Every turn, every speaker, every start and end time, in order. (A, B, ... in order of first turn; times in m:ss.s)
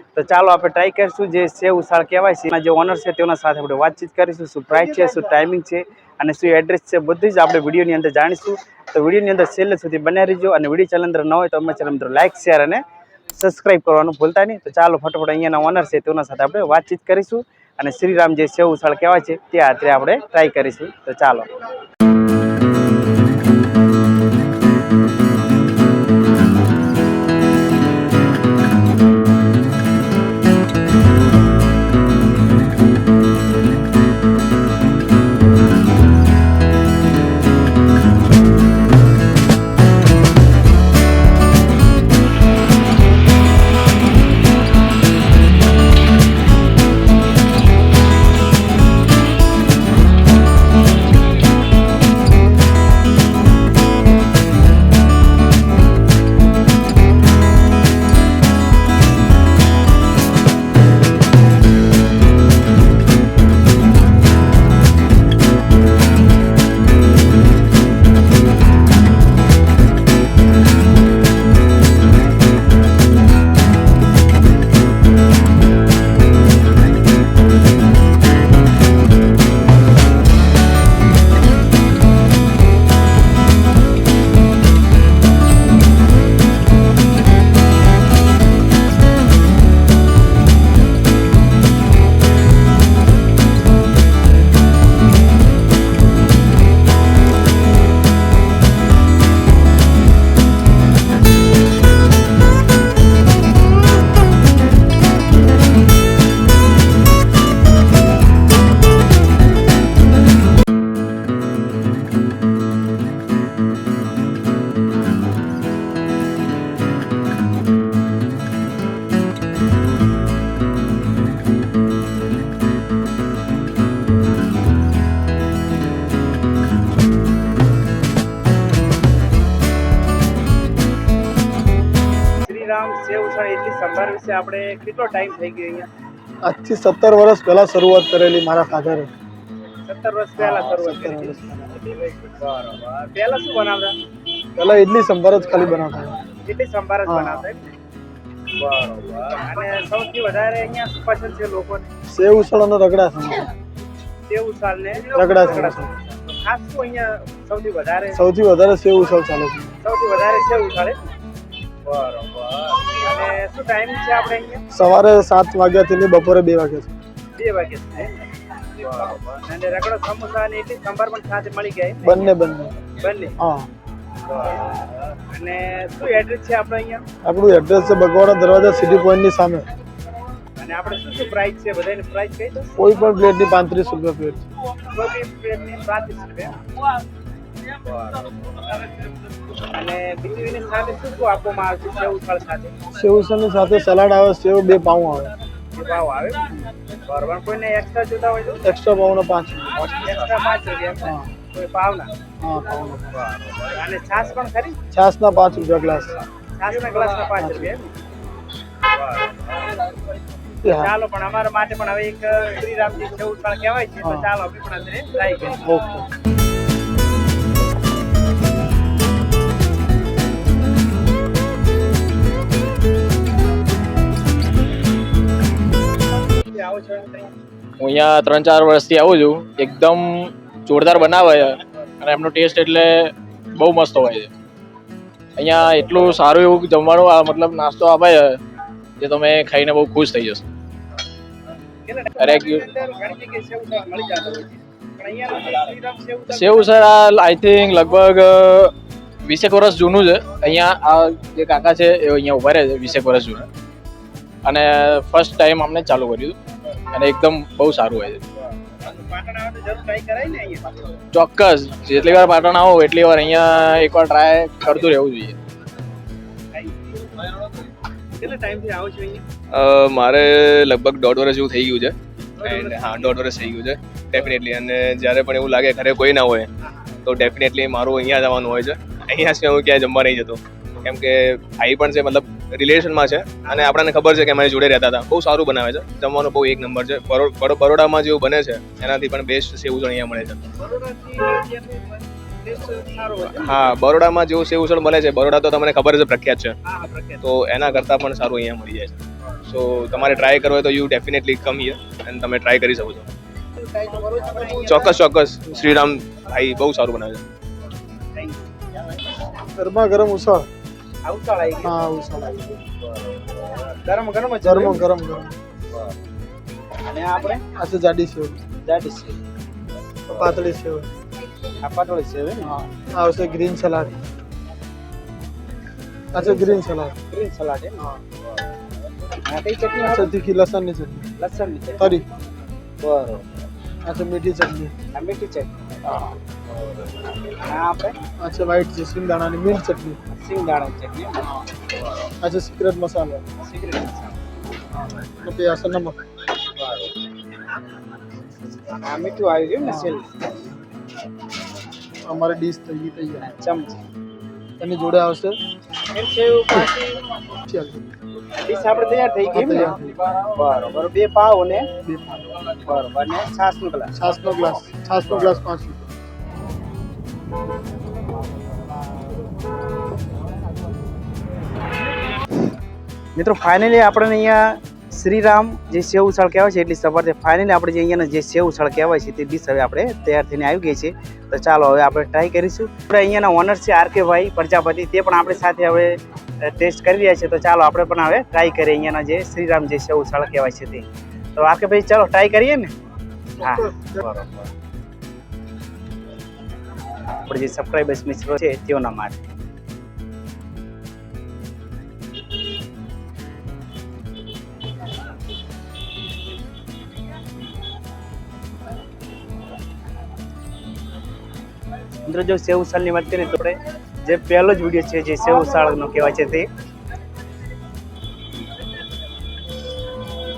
0:00.2-0:12.8 A
0:13.3-0:21.5 A
2:12.4-2:15.9 A
2:16.4-2:19.1 B
2:19.8-2:24.0 A
2:20.4-2:21.8 B
2:24.6-2:26.2 B
2:26.3-2:27.7 A
2:27.1-2:27.4 B
2:28.5-2:31.9 A
2:32.1-2:33.5 B
2:34.3-2:38.2 A
2:35.1-2:35.9 B
2:38.1-2:39.8 B
2:39.8-2:41.0 A
2:41.9-2:44.6 A
2:44.7-2:47.0 B
2:47.4-2:52.3 A
2:52.0-2:52.8 B
2:52.9-2:53.4 A
2:53.4-2:53.7 B
2:54.3-2:57.1 A
2:57.2-2:59.7 B
3:00.6-3:02.8 A
3:02.8-3:04.4 B
3:04.9-3:06.6 A
3:08.0-3:08.7 A
3:09.7-3:12.7 A
3:12.9-3:15.3 B
3:15.7-3:18.6 A
3:18.6-3:19.9 B
3:19.8-3:22.1 A
3:21.0-3:21.3 B
3:22.4-3:23.2 B
3:23.4-3:24.8 A
3:24.9-3:26.2 B
3:26.6-3:27.9 A
3:27.4-3:27.7 B
3:30.6-3:30.9 B
3:30.6-3:35.6 A
3:34.0-3:34.3 B
3:35.5-3:36.1 B
3:46.4-3:47.3 A
3:47.8-3:54.3 C
3:55.4-3:58.4 C
3:59.0-4:00.4 C
4:01.8-4:06.8 A
4:02.2-4:02.6 C
4:06.3-4:08.7 C
4:09.2-4:13.5 C
4:14.4-4:16.4 C
4:16.9-4:18.2 C
4:18.8-4:20.8 A
4:21.1-4:25.4 C
4:26.5-4:27.3 A
4:28.2-4:29.2 A
4:29.5-4:36.5 D
4:32.4-4:33.2 A
4:37.0-4:50.4 D
4:43.5-4:43.7 A
4:50.6-4:53.7 A
4:53.4-4:56.6 D
4:56.6-4:57.2 A
4:57.2-5:03.1 D
5:03.5-5:05.0 A
5:04.7-5:07.2 D
5:08.1-5:08.5 A
5:09.4-5:10.5 B
5:11.1-5:11.7 A
5:11.6-5:12.5 B
5:13.8-5:14.9 A
5:14.4-5:15.4 B
5:16.8-5:17.4 A
5:17.5-5:18.4 B
5:18.6-5:19.2 A
5:20.1-5:20.9 B
5:21.6-5:22.5 A
5:22.4-5:24.0 B
5:26.1-5:27.0 B
5:26.2-5:27.9 A
5:29.1-5:30.1 A
5:29.9-5:31.1 B
5:31.2-5:32.0 A
5:31.8-5:32.1 B
5:32.8-5:33.3 A
5:33.8-5:34.8 B
5:34.9-5:36.1 A
5:37.4-5:38.0 A
5:38.2-5:40.0 B
5:40.1-5:41.3 A
5:42.2-5:43.2 B
5:43.4-5:44.2 A
5:45.0-5:46.0 B
5:46.6-5:46.9 A
5:48.7-5:50.1 A
5:49.6-5:49.9 B
5:52.0-5:53.3 B
5:53.2-5:53.8 A
5:54.6-5:55.4 B
5:55.8-5:57.0 A
5:57.4-5:57.8 B
5:58.3-6:01.7 A
5:59.3-6:00.0 B
6:01.8-6:02.2 B
6:02.5-6:04.0 A
6:03.9-6:05.9 B
6:13.2-6:32.7 A
6:33.4-6:34.5 A
6:33.6-6:34.0 B
6:37.2-6:39.2 A
6:52.1-6:56.5 A